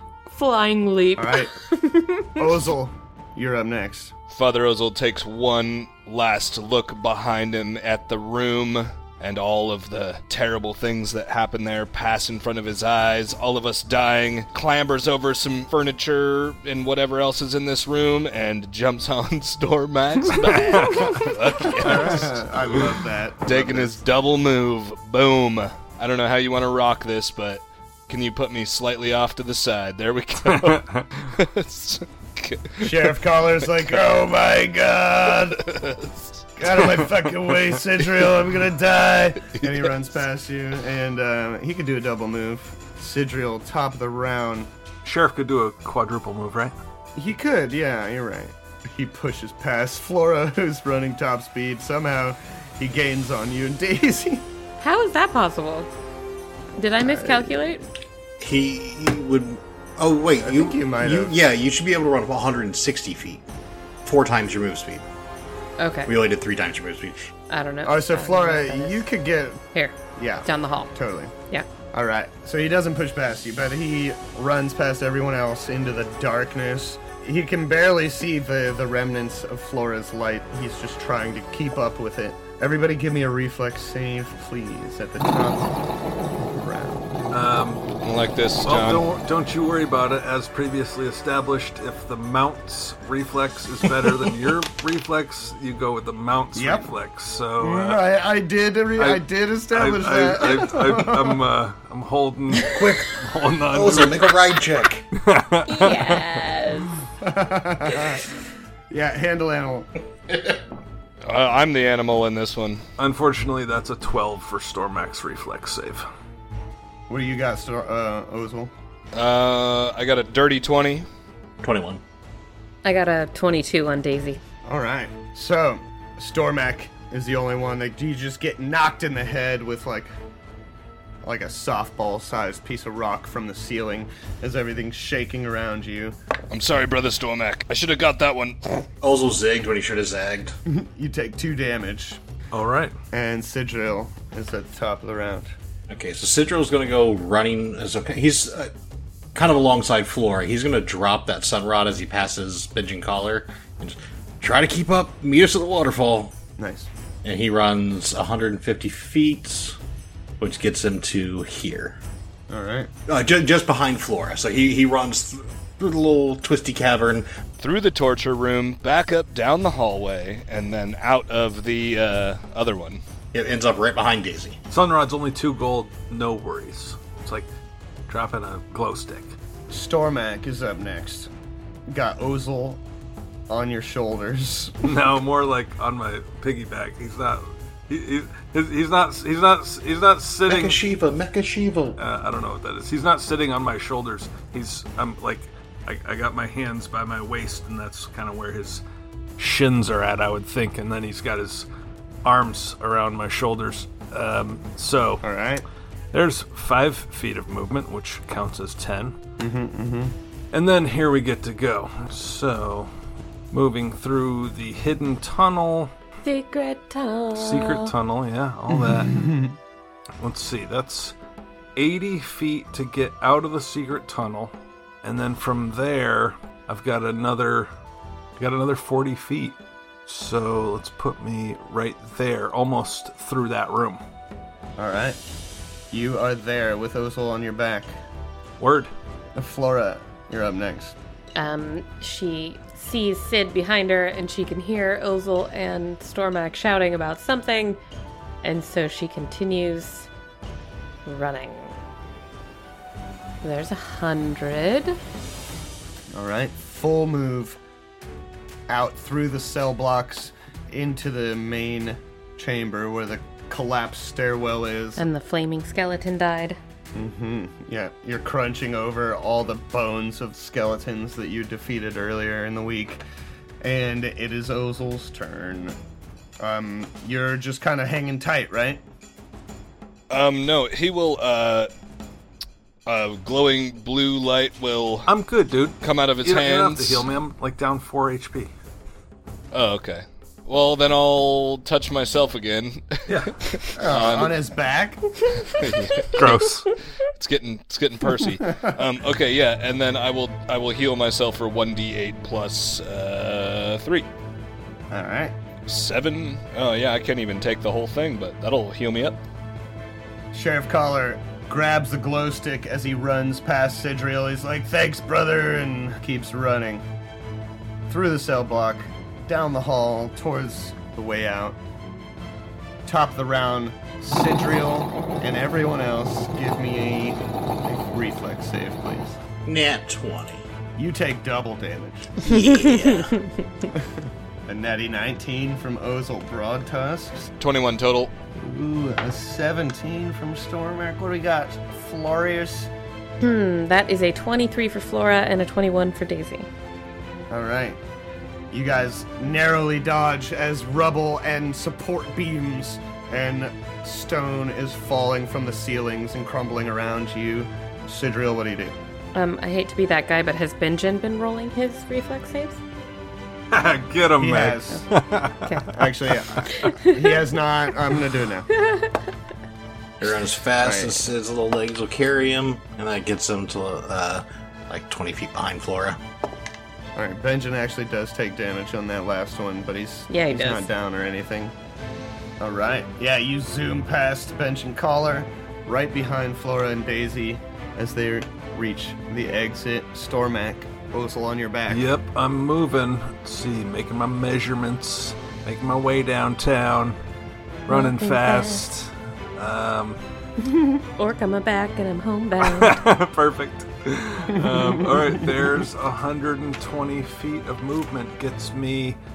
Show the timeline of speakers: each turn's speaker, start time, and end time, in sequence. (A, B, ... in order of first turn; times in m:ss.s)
0:00.3-0:02.6 A
0:01.2-0:01.5 B
0:02.4-0:04.1 B
0:04.3-0:33.1 C
0:20.4-0:21.3 D
0:21.7-0:24.0 B
0:30.4-0:31.1 D
0:32.8-0:35.7 B
0:35.6-0:36.4 C
0:36.6-0:44.7 B
0:45.0-0:46.7 D
0:47.2-0:54.4 B
0:54.8-0:55.9 A
0:56.8-0:57.8 A
0:57.0-0:57.5 B
0:58.4-1:03.4 E
1:00.4-1:01.4 B
1:04.0-1:05.0 E
1:05.8-1:06.1 A
1:06.1-1:07.3 E
1:07.5-1:09.0 A
1:07.8-1:09.6 B
1:09.7-1:10.9 A
1:10.1-1:11.3 B
1:11.9-1:25.7 B
1:26.4-1:27.1 B
1:27.3-1:27.8 D
1:28.0-1:29.0 C
1:28.6-1:38.0 D
1:36.5-1:36.9 B
1:37.6-1:41.4 B
1:39.0-1:44.3 D
1:42.5-1:45.1 E
1:45.1-1:46.3 D
1:45.7-1:46.9 A
1:47.2-1:48.3 B
1:48.9-1:49.9 B
1:51.2-1:52.8 C
1:53.0-1:56.0 D
1:57.1-1:58.7 B
1:59.1-2:01.1 C
2:01.6-2:02.0 E
2:02.8-2:04.4 A
2:04.6-2:10.1 B
2:11.2-2:16.2 B
2:16.5-2:18.9 C
2:19.0-2:20.6 E
2:20.7-2:22.2 B
2:22.5-2:22.9 D
2:23.1-2:25.5 B
2:25.9-2:28.7 E
2:29.3-2:36.3 E
2:36.6-2:36.9 B
2:37.2-2:39.8 E
2:40.4-2:42.0 E
2:42.5-2:42.9 B
2:43.1-2:47.3 E
2:47.6-2:53.0 C
2:53.3-2:54.6 E
2:54.7-2:57.5 D
2:58.1-2:59.3 D
2:59.7-3:01.3 B
3:01.9-3:02.8 B
3:03.5-3:05.0 B
3:04.8-3:10.8 D
3:10.4-3:12.0 E
3:12.0-3:18.8 D
3:19.4-3:21.6 D
3:22.2-3:25.2 D
3:25.2-3:25.6 B
3:26.1-3:29.2 D
3:29.4-3:30.2 B
3:30.5-3:32.9 D
3:33.5-3:35.9 D
3:36.2-3:37.9 A
3:37.3-3:39.2 D
3:38.8-3:39.6 B
3:40.2-3:41.1 D
3:41.8-3:47.7 D
3:48.4-3:54.0 D
3:54.8-3:55.2 B
3:55.9-3:57.9 B
3:58.6-3:58.9 D
3:59.3-4:01.0 B
4:01.4-4:07.8 A
4:08.4-4:10.1 A
4:11.0-4:11.8 A
4:13.4-4:15.0 A
4:16.1-4:17.6 B
4:18.7-4:25.0 B
4:25.0-4:26.6 A
4:26.9-4:33.0 B
4:33.6-4:35.8 B
4:36.4-4:38.8 B
4:40.1-4:41.7 C
4:42.8-4:45.1 C
4:45.1-4:48.5 D
4:45.8-4:47.1 C
4:49.5-4:54.4 C
4:53.1-4:53.4 D
4:53.7-4:55.2 B
4:55.5-4:56.5 C
4:56.1-4:56.7 D
4:57.0-5:04.1 C
4:58.4-4:58.8 B
5:04.9-5:05.3 B
5:05.6-5:09.2 C
5:10.3-5:16.8 B
5:17.9-5:21.6 B
5:22.8-5:29.2 B
5:29.4-5:30.4 E
5:30.8-5:32.3 B
5:32.2-5:33.2 E
5:32.2-5:33.3 A
5:33.7-5:37.3 B
5:37.4-5:38.1 C
5:38.3-5:42.7 B
5:43.2-5:46.5 A
5:47.3-5:47.8 B
5:48.5-5:58.8 B
5:59.1-6:02.6 A
6:03.5-6:06.7 D
6:04.2-6:04.8 B
6:05.4-6:05.7 A
6:05.7-6:08.5 B
6:06.5-6:07.1 A
6:08.5-6:09.0 A
6:10.0-6:16.0 E
6:10.6-6:11.0 B
6:16.9-6:21.5 B
6:20.1-6:20.7 A
6:22.4-6:31.9 B
6:31.7-6:37.0 D
6:37.7-6:40.0 D
6:37.7-6:38.6 A
6:40.8-6:42.8 A
6:42.4-6:49.0 D